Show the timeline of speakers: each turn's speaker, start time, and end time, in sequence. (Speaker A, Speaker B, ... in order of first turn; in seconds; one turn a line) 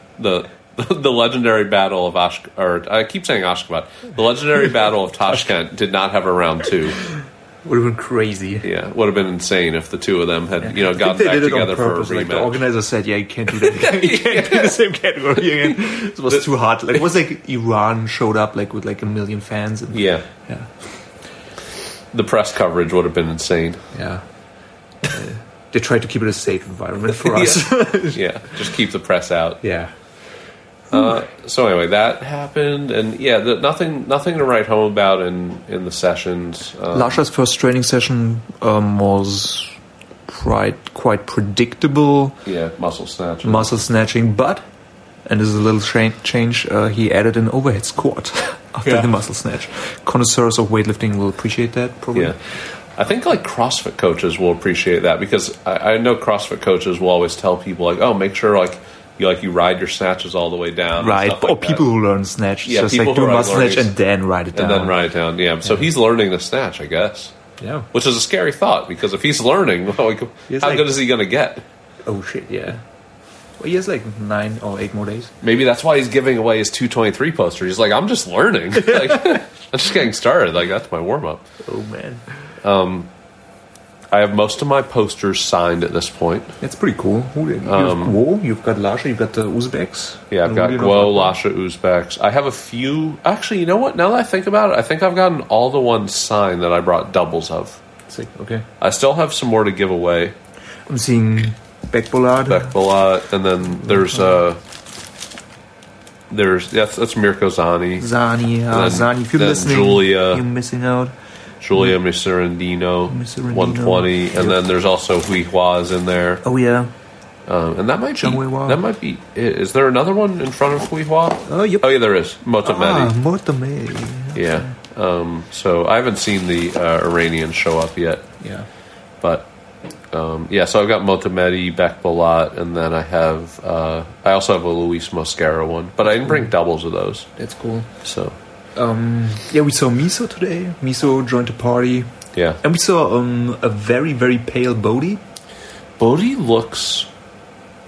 Speaker A: 0.2-7.0
Speaker B: 7.0-8.7
Speaker A: 8.6-12.6
Speaker B: 10.6-20.7
Speaker A: 13.5-14.8
Speaker A: 19.9-20.3
Speaker A: 22.1-23.8
Speaker B: 23.9-24.2
Speaker B: 25.1-28.2
Speaker A: 27.1-29.6
Speaker B: 29.6-29.9
Speaker A: 30.9-37.2
Speaker B: 36.9-39.8
Speaker B: 40.3-42.4
Speaker A: 42.5-43.7
Speaker B: 43.4-44.6
Speaker B: 45.3-52.4
Speaker A: 48.9-49.1
Speaker A: 53.0-61.9
Speaker B: 61.0-65.0
Speaker A: 62.6-63.9
Speaker A: 64.5-67.3
Speaker B: 67.6-67.9
Speaker A: 67.9-71.6
Speaker B: 70.5-70.9
Speaker B: 72.0-72.8
Speaker B: 73.6-75.3
Speaker A: 75.4-81.4
Speaker B: 78.9-79.4
Speaker B: 81.6-82.2
Speaker A: 82.6-83.1
Speaker A: 84.1-86.5
Speaker B: 86.6-91.4
Speaker A: 87.6-88.1
Speaker A: 90.3-97.8
Speaker B: 98.1-98.7
Speaker A: 98.8-100.3
Speaker B: 100.9-102.8
Speaker A: 102.5-104.6
Speaker B: 103.8-104.4
Speaker A: 106.3-108.1
Speaker B: 108.0-111.1
Speaker A: 108.7-110.5
Speaker A: 111.6-116.4
Speaker B: 113.1-114.6
Speaker B: 116.4-116.9
Speaker A: 117.5-123.1
Speaker B: 118.2-118.8
Speaker B: 121.5-121.9
Speaker B: 122.6-124.8
Speaker A: 124.3-128.3
Speaker B: 128.4-128.7
Speaker A: 129.2-129.5
Speaker A: 130.1-137.3
Speaker B: 136.2-136.5
Speaker B: 137.4-137.9
Speaker A: 138.0-138.4
Speaker B: 138.8-142.1
Speaker A: 142.3-142.6
Speaker B: 142.6-145.2
Speaker A: 146.0-147.1